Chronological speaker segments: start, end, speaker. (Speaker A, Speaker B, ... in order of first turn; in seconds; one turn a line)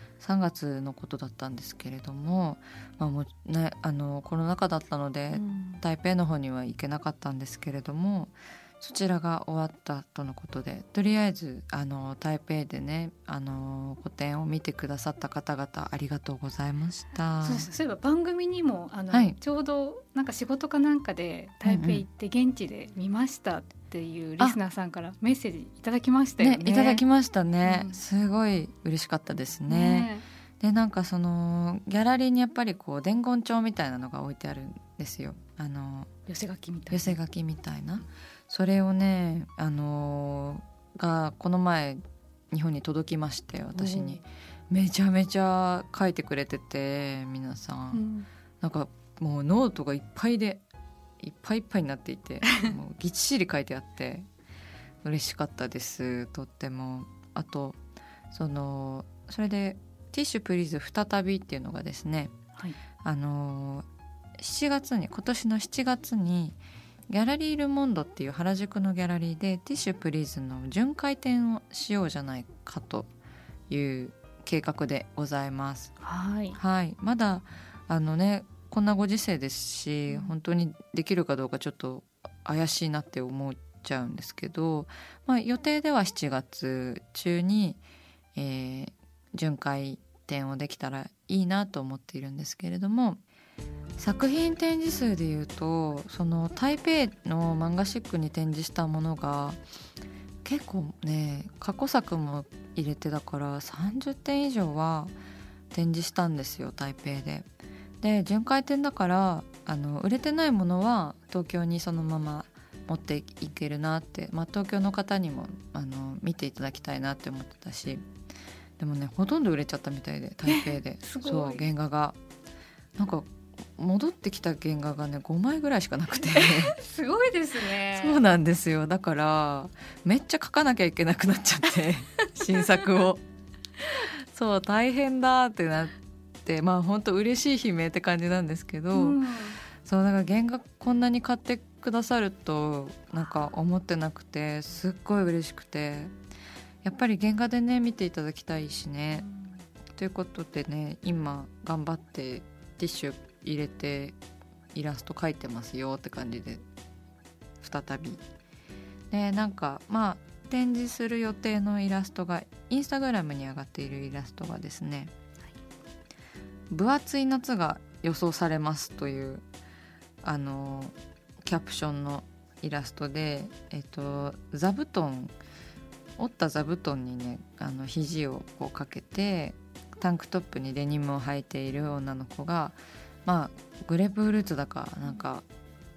Speaker A: 0.2-17.7
Speaker B: 5.3-5.8
Speaker B: 17.4-27.0
Speaker A: 19.1-19.4
Speaker A: 21.6-22.0
Speaker A: 26.4-30.1
Speaker B: 27.6-28.0
Speaker B: 29.7-30.2
Speaker A: 30.6-36.1
Speaker B: 36.3-37.1
Speaker A: 36.9-48.0
Speaker B: 43.7-44.2
Speaker B: 47.9-48.3
Speaker A: 48.6-50.6
Speaker A: 51.2-54.3
Speaker A: 55.0-57.8
Speaker A: 58.3-62.3
Speaker A: 63.0-63.8
Speaker A: 64.4-66.6
Speaker A: 67.1-73.1
Speaker A: 73.7-75.9
Speaker B: 76.0-76.6
Speaker A: 76.5-87.8
Speaker A: 88.3-93.2
Speaker A: 94.0-99.6
Speaker A: 100.4-105.1
Speaker A: 105.7-107.5
Speaker A: 108.0-118.0
Speaker A: 118.8-122.2
Speaker B: 120.5-121.6
Speaker A: 123.0-126.8
Speaker B: 126.3-128.2
Speaker A: 127.9-133.2
Speaker A: 133.9-139.2
Speaker B: 138.9-139.6
Speaker A: 139.8-146.1
Speaker A: 146.8-149.3
Speaker A: 149.9-154.2
Speaker A: 154.7-156.6
Speaker A: 157.6-158.2
Speaker A: 159.1-165.1
Speaker A: 166.7-169.4
Speaker A: 170.2-175.3
Speaker A: 176.2-185.4